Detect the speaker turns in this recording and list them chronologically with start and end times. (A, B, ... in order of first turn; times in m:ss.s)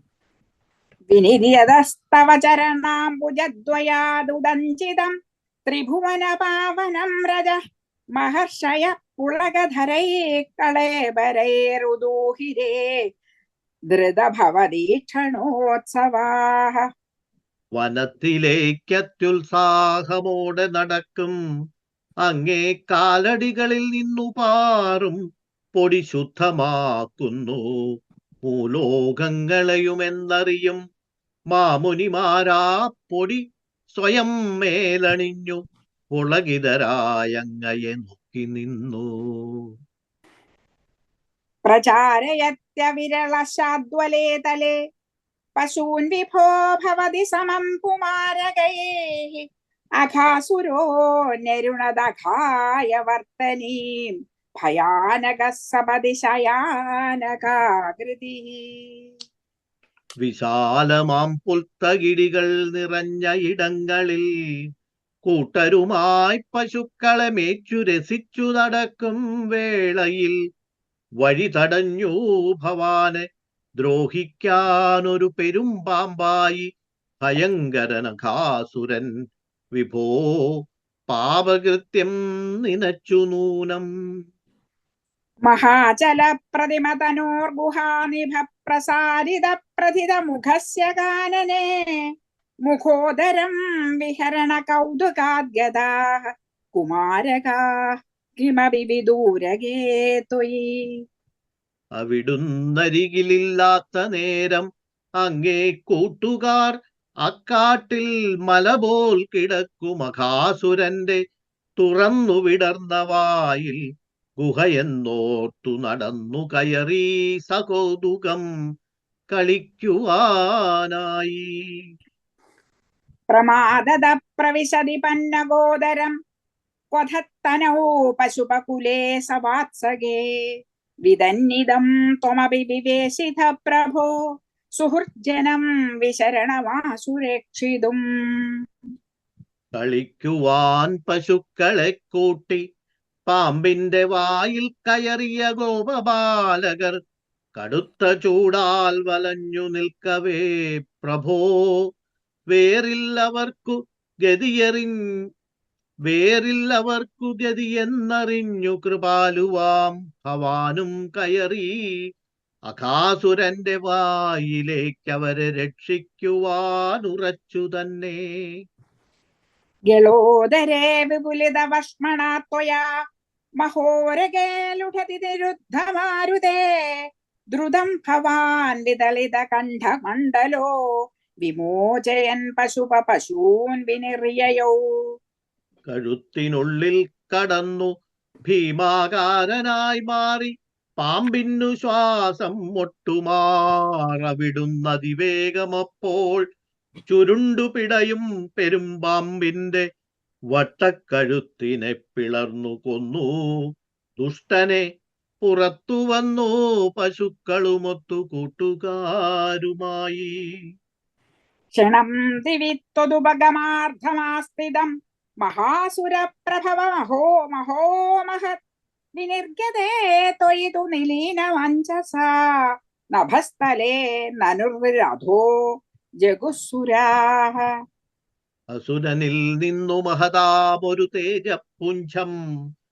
0:01.1-0:05.1 A
0:05.7-0:07.6 A
0:08.2-0:12.7 A
0:13.9-0:16.8 A
0:17.8-0:21.4 B
0:22.3-0:25.2 B
0:25.8-0:27.6 B
0:28.5-0:30.8 B
0:31.5-0:33.4 B
0:34.0-0:35.6 B
0:36.2-0:39.1 B
0:41.7-0:44.7 A
0:45.6-0:49.4 A
0:50.0-0:50.8 A
0:51.4-0:53.8 A
0:54.6-0:58.8 A
1:00.2-1:04.2 B
1:05.3-1:10.4 B
1:11.2-1:13.2 B
1:13.8-1:16.6 B
1:17.2-1:19.1 B
1:19.8-1:20.6 B
1:21.1-1:22.1 B
1:22.6-1:23.8 B
1:25.5-1:31.6 A
1:32.7-1:36.2 A
1:36.8-1:37.6 A
1:38.4-1:40.7 A
1:42.0-1:44.7 B
1:45.2-1:46.7 B
1:47.2-1:51.2 B
1:51.8-1:53.8 B
1:54.4-1:58.4 B
1:59.3-2:01.4 B
2:03.3-2:06.1 A
2:06.9-2:10.2 A
2:11.1-2:14.1 A
2:14.8-2:18.0 A
2:19.8-2:22.6 B
2:23.3-2:27.0 B
2:27.6-2:30.5 B
2:31.0-2:31.8 B
2:32.5-2:34.9 B
2:36.1-2:41.7 B
2:42.7-2:48.2 B
2:49.9-2:52.8 A
2:53.6-2:56.6 A
2:57.5-3:00.7 A
3:01.4-3:04.8 A
3:05.9-3:07.9 B
3:08.5-3:16.4 B
3:17.1-3:19.8 B
3:20.5-3:23.3 B
3:24.2-3:24.8 B
3:25.4-3:30.3 B
3:31.8-3:34.9 A
3:35.4-3:38.6 A
3:39.2-3:42.3 A
3:43.2-3:45.5 A
3:46.2-3:47.6 A
3:48.8-3:52.4 B